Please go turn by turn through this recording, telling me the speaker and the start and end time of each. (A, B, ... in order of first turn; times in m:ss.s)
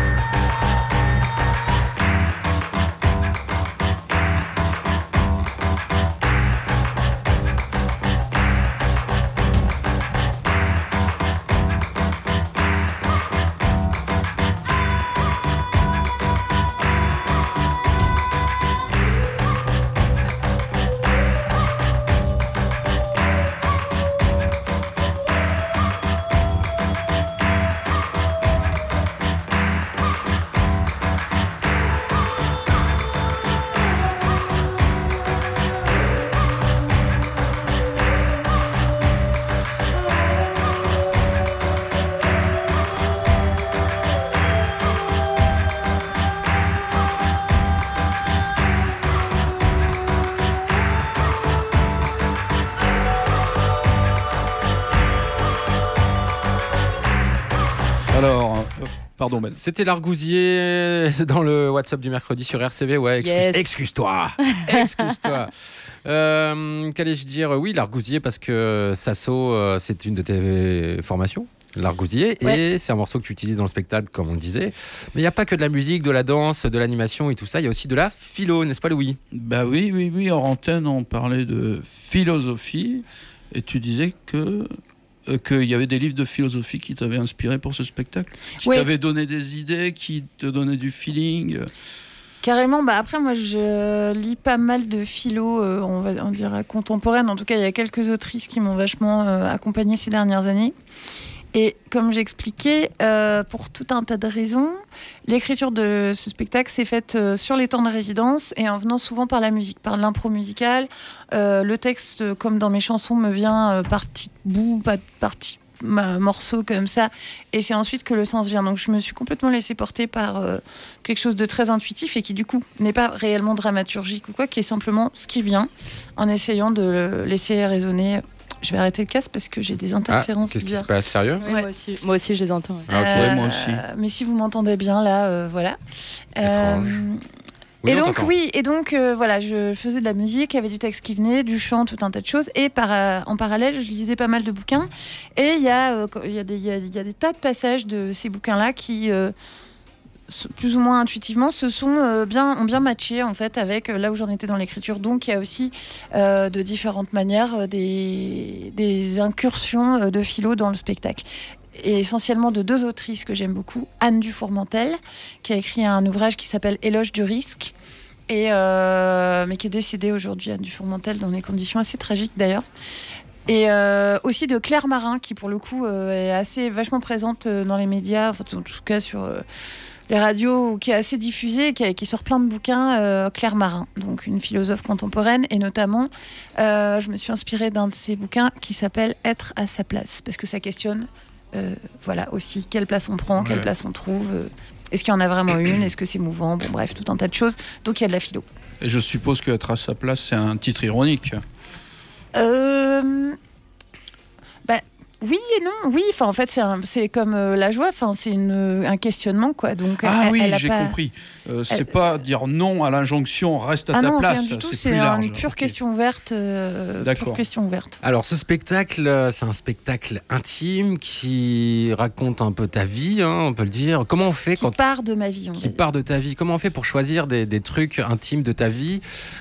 0:58.1-0:59.6 A
0:59.2-1:05.5 B
1:03.2-1:03.7 C
1:04.5-1:05.1 C
1:06.0-1:19.2 B
1:19.3-1:24.7 A
1:25.3-1:31.7 A
1:28.6-1:28.9 D
1:32.4-1:40.7 D
1:41.5-2:10.9 D
2:10.1-2:11.4 B
2:11.4-2:11.6 D
2:11.4-2:12.9 C
2:12.9-2:13.3 B
2:12.9-2:15.8 D
2:13.0-2:13.8 A
2:16.4-2:17.2 D
2:16.4-2:17.0 B
2:17.8-2:18.3 B
2:17.8-2:29.3 D
2:30.3-2:47.7 D
2:48.3-2:52.6 D
2:53.4-2:59.4 D
3:00.1-3:18.4 D
3:13.4-3:13.7 A
3:18.8-3:21.4 A
3:22.3-3:23.4 D
3:24.6-3:31.0 D
3:30.0-3:35.8 A
3:33.9-3:38.0 D
3:37.0-3:37.4 A
3:38.0-3:44.8 B
3:44.6-3:45.8 D
3:45.5-3:49.0 B